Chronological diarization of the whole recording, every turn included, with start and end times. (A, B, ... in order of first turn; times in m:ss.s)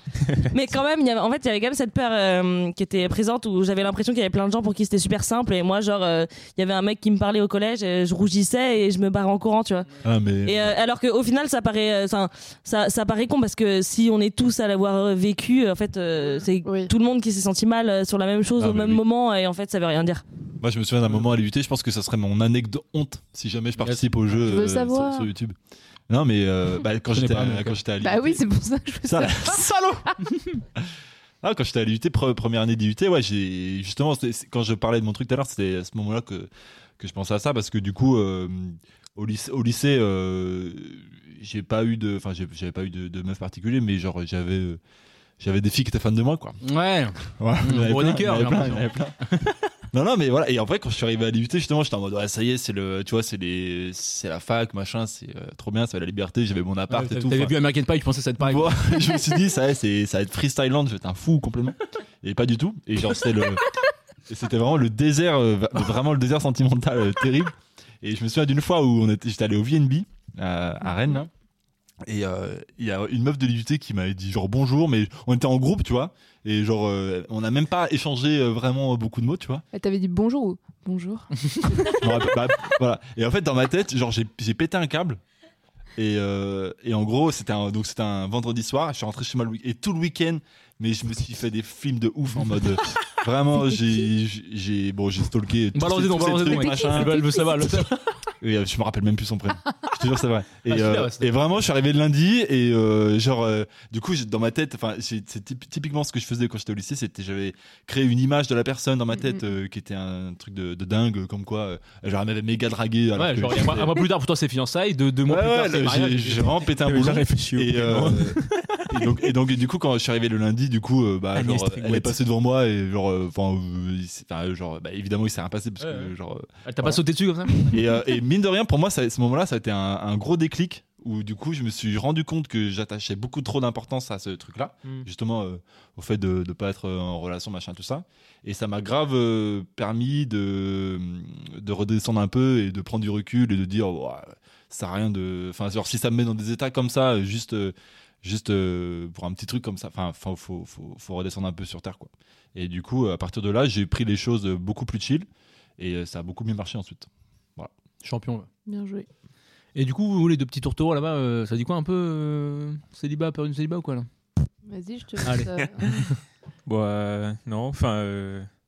0:00.5-0:20.2 A
0:10.0-0:10.7 B
0:16.6-0:16.9 C
0:18.6-0:19.0 B
0:20.6-0:25.6 B
0:24.4-0:25.3 C
0:26.1-0:28.4 B
0:27.1-0:27.8 D
0:28.0-0:29.6 C
0:29.0-0:30.2 B
0:31.4-0:44.8 B
0:45.4-0:46.6 B
0:46.6-0:49.6 D
0:47.4-0:49.2 B
0:49.9-0:57.5 B
0:56.9-0:58.9 D
0:58.4-1:03.6 B
1:04.3-1:11.3 B
1:12.0-1:19.6 B
1:19.7-1:22.1 C
1:22.0-1:25.2 B
1:26.0-1:37.5 B
1:35.7-1:38.0 D
1:36.4-1:37.7 C
1:38.4-1:54.1 B
1:40.6-1:41.3 D
1:53.2-1:56.6 D
1:55.3-2:07.0 B
1:56.8-1:59.0 E
2:01.3-2:02.2 E
2:05.8-2:06.1 D
2:06.6-2:07.8 D
2:07.5-2:35.3 B
2:35.8-2:37.7 B
2:38.0-2:38.5 D
2:38.6-2:39.1 C
2:39.7-2:44.1 D
2:44.6-2:46.0 C
2:45.2-2:46.2 D
2:46.6-2:48.5 E